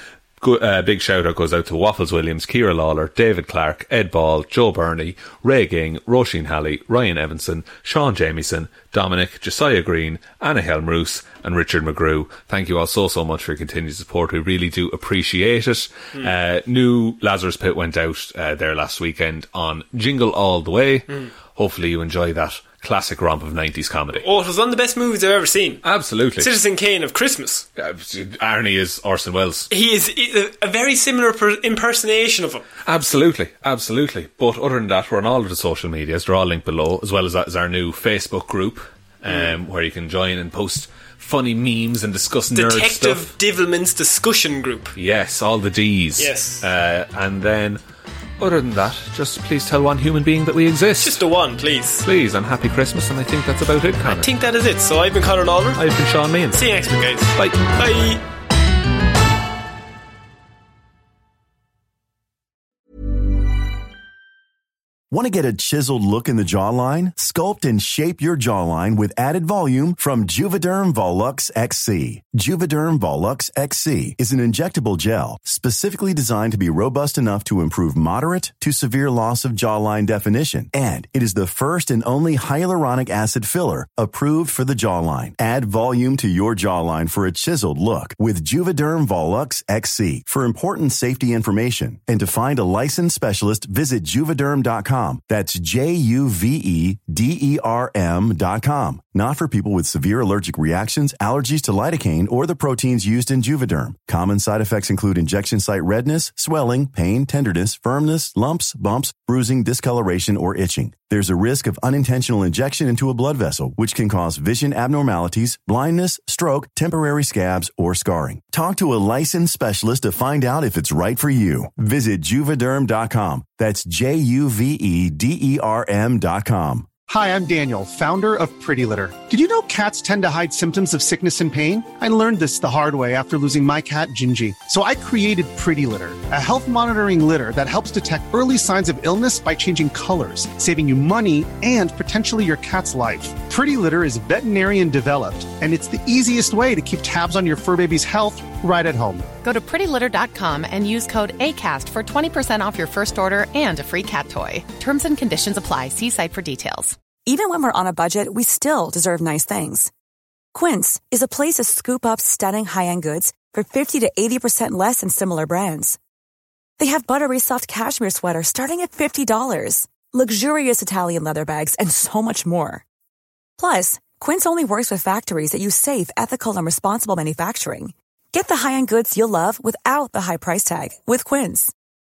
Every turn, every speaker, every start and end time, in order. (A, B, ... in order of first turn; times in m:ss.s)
0:00.4-0:24.3 A
0:24.2-0:25.8 B
0:25.8-0:26.5 A
0:26.4-0:27.6 B
0:27.8-0:29.7 A
0:29.7-0:32.6 B
0:32.9-0:43.3 A
0:39.3-0:39.6 B
0:42.6-0:44.9 B
0:45.0-0:47.8 A
0:46.2-0:46.6 B
0:48.4-0:51.2 A
0:51.0-0:52.0 B
0:52.0-0:54.3 A
0:54.0-0:55.8 B
0:55.8-0:56.7 A
0:56.5-0:58.2 B
0:57.4-0:57.8 A
1:05.1-2:06.9 C
2:07.0-2:29.3 D
2:29.4-2:37.0 E
2:37.3-2:39.9 F
2:40.5-2:46.0 F
2:46.8-2:52.8 F
2:53.6-3:01.7 F